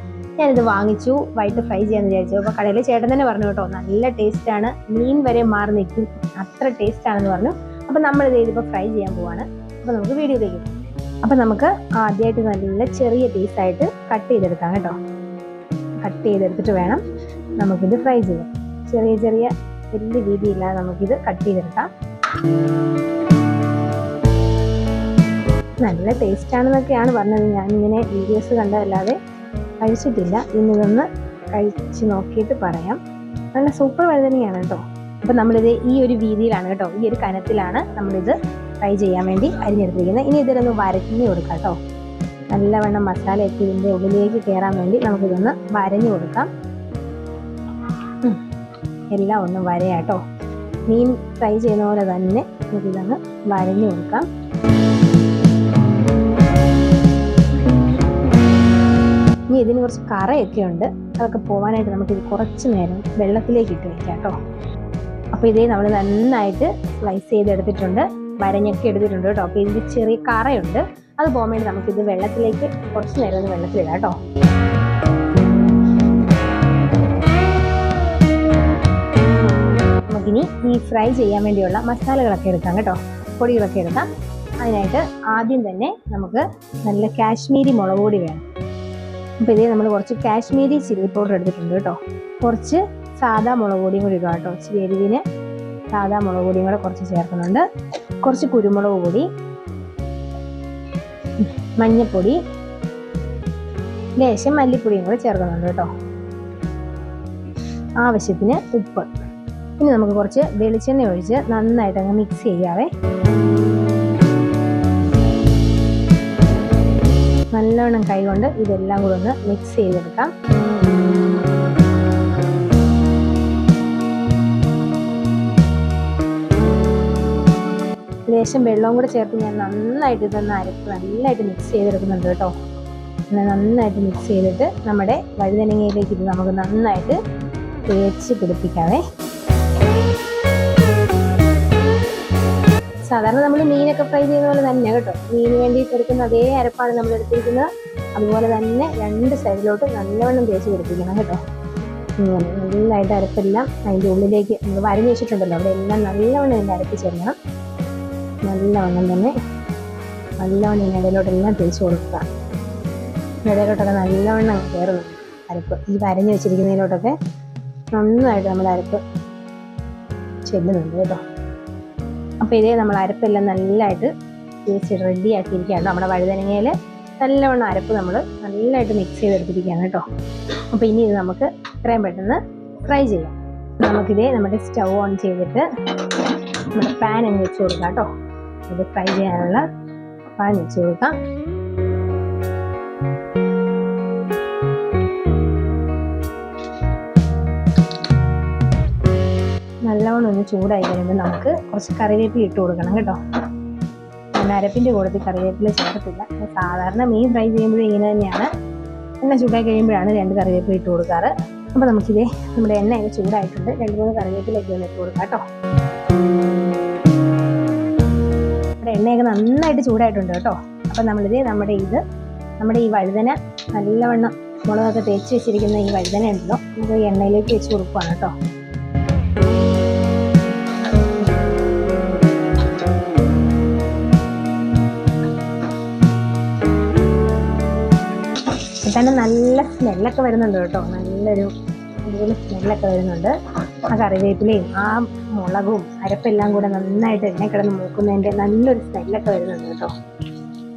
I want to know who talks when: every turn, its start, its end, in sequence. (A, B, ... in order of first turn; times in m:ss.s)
0:00.4-0:10.7 A
0:11.2-0:15.0 A
0:16.0-0:17.0 A
0:17.6-0:21.9 A
0:25.8-0:29.2 A
0:29.8-0:33.0 A
0:33.5-0:41.8 A
0:42.5-0:46.5 A
0:49.1-0:50.2 A
0:50.9-0:54.3 A
0:59.5-1:04.4 A
1:05.3-1:14.2 A
1:20.1-1:24.1 A
1:24.6-1:28.4 A
1:29.4-1:35.2 A
1:35.9-1:37.6 A
1:38.2-1:39.3 A
1:41.4-1:42.4 A
1:44.2-1:45.9 A
1:48.0-1:49.1 A
1:49.8-1:52.9 A
1:57.5-2:00.3 A
2:08.3-2:12.5 A
2:13.3-2:17.2 A
2:17.9-2:19.0 A
2:23.1-2:31.4 A
2:32.2-2:37.4 A
2:38.5-2:39.3 A
2:40.4-2:42.2 A
2:43.4-2:47.1 A
2:47.9-2:49.0 A
2:50.5-2:51.2 A
2:52.4-2:54.1 A
2:54.6-3:00.0 A
3:00.7-3:08.1 A
3:08.7-3:09.6 A
3:10.4-3:11.1 A
3:19.9-3:23.2 A
3:24.4-3:28.5 A
3:29.2-3:35.4 A
3:38.8-3:42.0 A
3:42.6-3:48.3 A
3:58.8-4:01.5 A
4:02.0-4:03.3 A
4:03.9-4:09.9 A